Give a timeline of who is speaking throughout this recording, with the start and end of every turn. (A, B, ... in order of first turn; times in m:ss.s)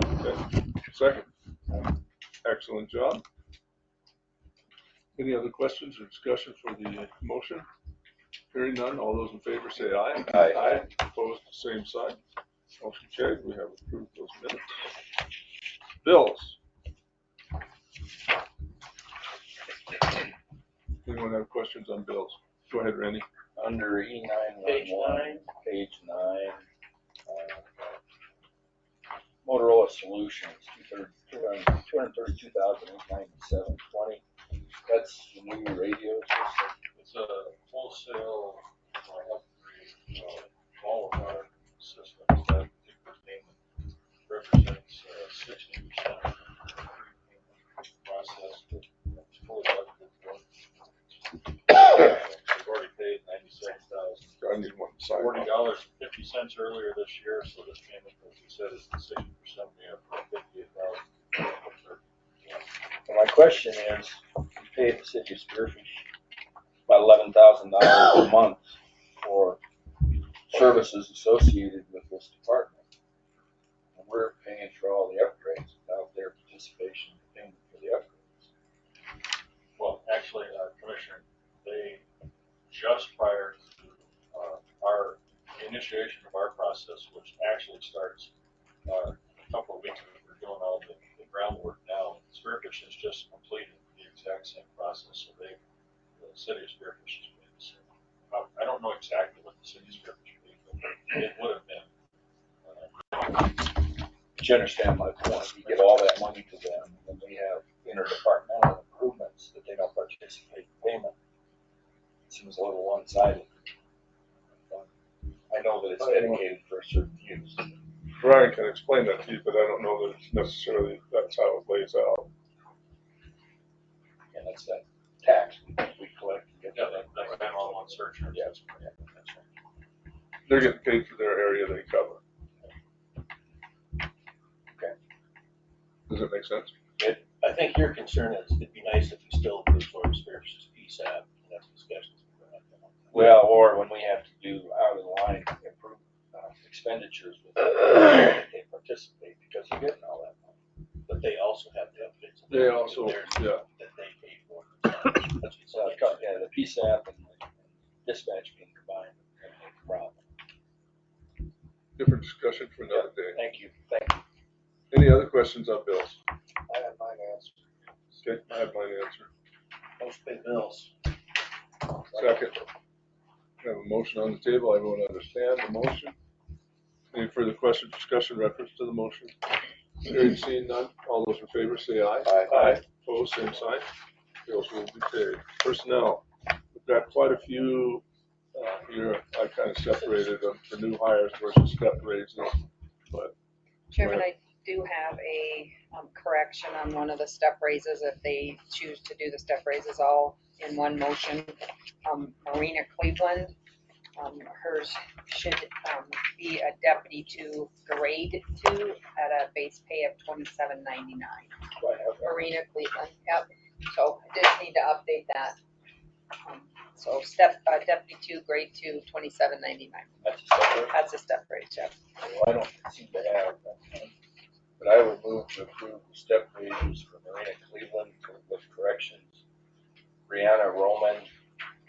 0:00.2-0:01.3 A
0:02.4-0:03.2 A
0:05.2-0:07.7 A
0:08.5-0:12.2 A
0:10.3-0:10.6 B
0:12.8-0:14.8 A
0:16.0-0:16.6 A
0:21.0-0:23.3 A
0:23.6-0:26.6 B
0:24.7-0:25.4 C
0:27.3-0:28.0 D
0:29.4-0:34.2 B
0:34.9-0:36.7 B
0:37.0-0:43.6 D
0:44.3-0:54.3 D
0:54.4-0:55.6 A
0:55.1-1:02.7 D
1:03.1-1:06.0 B
1:06.9-1:09.6 B
1:10.5-1:12.8 B
1:14.0-1:18.4 B
1:19.8-1:22.0 D
1:22.7-1:28.3 D
1:28.9-1:35.6 D
1:36.2-1:41.9 D
1:42.6-1:43.2 D
1:44.4-1:51.1 B
1:52.3-1:53.5 B
1:55.5-1:57.7 B
1:56.0-1:56.4 A
1:58.2-2:02.3 A
2:04.3-2:08.9 B
2:06.7-2:09.5 D
2:10.5-2:12.2 A
2:16.1-2:16.7 A
2:17.0-2:23.0 C
2:23.1-2:30.6 B
2:31.1-2:36.3 C
2:32.5-2:33.6 A
2:35.6-2:40.2 B
2:42.0-2:43.4 A
2:42.9-2:44.2 B
2:44.9-2:46.2 A
2:46.8-2:47.5 B
2:48.2-2:49.3 A
2:50.0-2:50.9 C
2:52.1-2:52.6 A
2:53.6-2:56.2 A
2:57.1-2:59.4 A
3:00.0-3:03.9 A
3:02.3-3:02.6 B
3:04.5-3:13.4 A
3:13.9-3:23.5 E
3:14.0-3:14.2 A
3:24.2-3:31.6 E
3:31.8-3:32.4 B
3:32.2-3:35.6 E
3:36.4-3:40.1 E
3:40.2-3:41.0 B
3:40.9-3:42.0 E
3:42.2-3:44.1 B
3:44.8-3:49.4 B
3:50.3-3:51.3 B